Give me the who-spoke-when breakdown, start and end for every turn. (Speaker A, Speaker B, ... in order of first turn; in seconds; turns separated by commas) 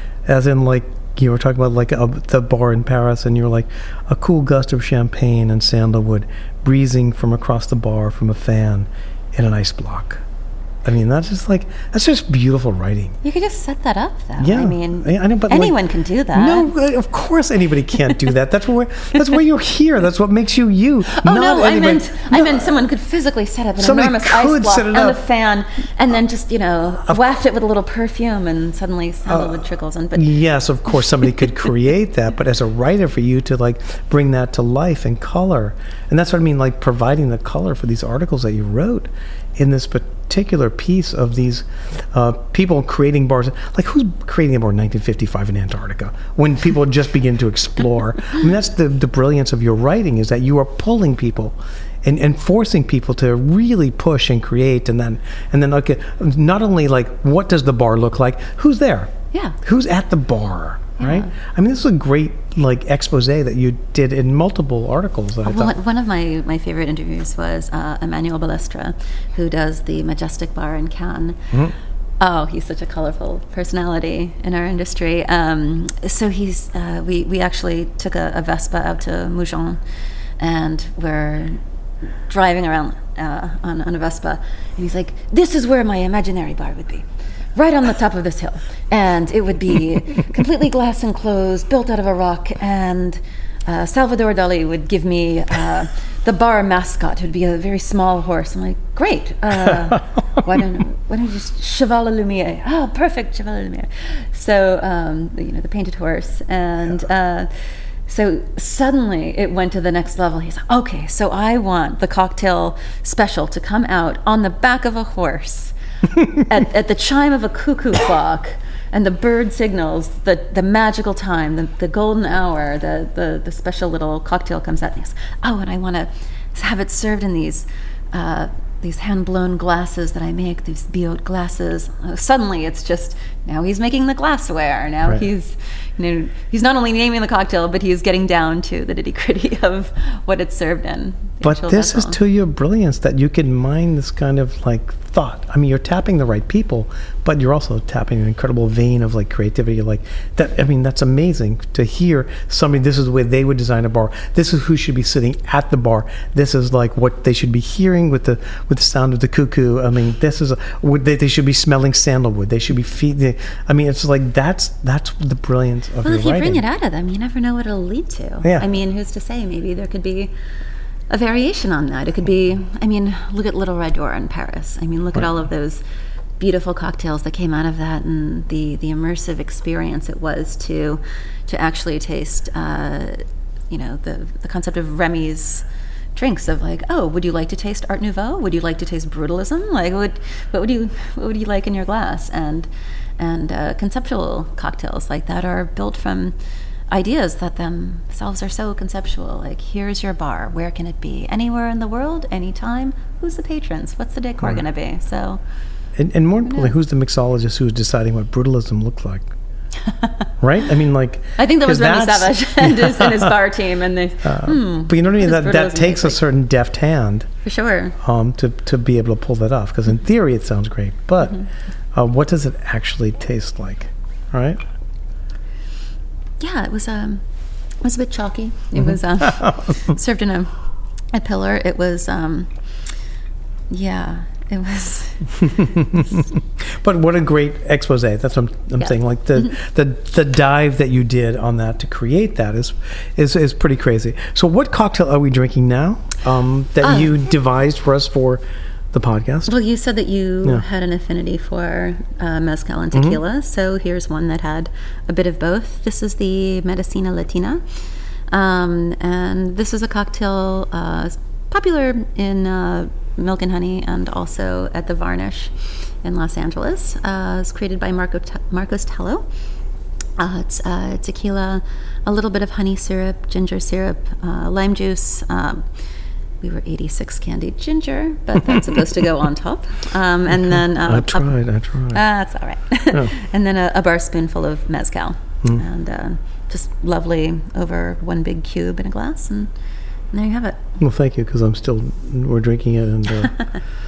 Speaker A: 0.2-10.2, Speaker A: 10.8-13.2, Speaker B: 13.2-16.7, Speaker A: 14.4-15.8, Speaker A: 16.3-22.7, Speaker B: 21.1-30.4, Speaker A: 23.8-25.2, Speaker A: 29.3-29.6, Speaker A: 30.1-65.8, Speaker B: 31.0-31.3, Speaker B: 61.0-61.3, Speaker B: 65.4-71.5, Speaker B: 72.2-79.8, Speaker B: 80.4-81.6, Speaker B: 82.3-142.2, Speaker A: 141.4-166.6, Speaker B: 166.0-170.3, Speaker B: 171.1-175.8, Speaker B: 176.4-196.3, Speaker B: 196.9-205.4, Speaker A: 205.9-209.3, Speaker A: 210.4-213.3, Speaker B: 211.4-216.2, Speaker A: 214.2-217.3, Speaker B: 217.4-218.0, Speaker A: 218.0-224.6, Speaker B: 226.4-227.2, Speaker B: 227.8-230.5, Speaker A: 228.9-229.6, Speaker B: 231.1-232.5, Speaker B: 233.7-236.1, Speaker A: 235.6-248.4, Speaker B: 238.8-239.5, Speaker B: 246.8-247.1, Speaker A: 248.9-249.5, Speaker B: 249.5-269.2, Speaker A: 252.9-253.2, Speaker B: 270.2-275.7, Speaker B: 276.4-289.5, Speaker A: 280.5-282.0, Speaker B: 290.1-290.8, Speaker A: 290.8-293.4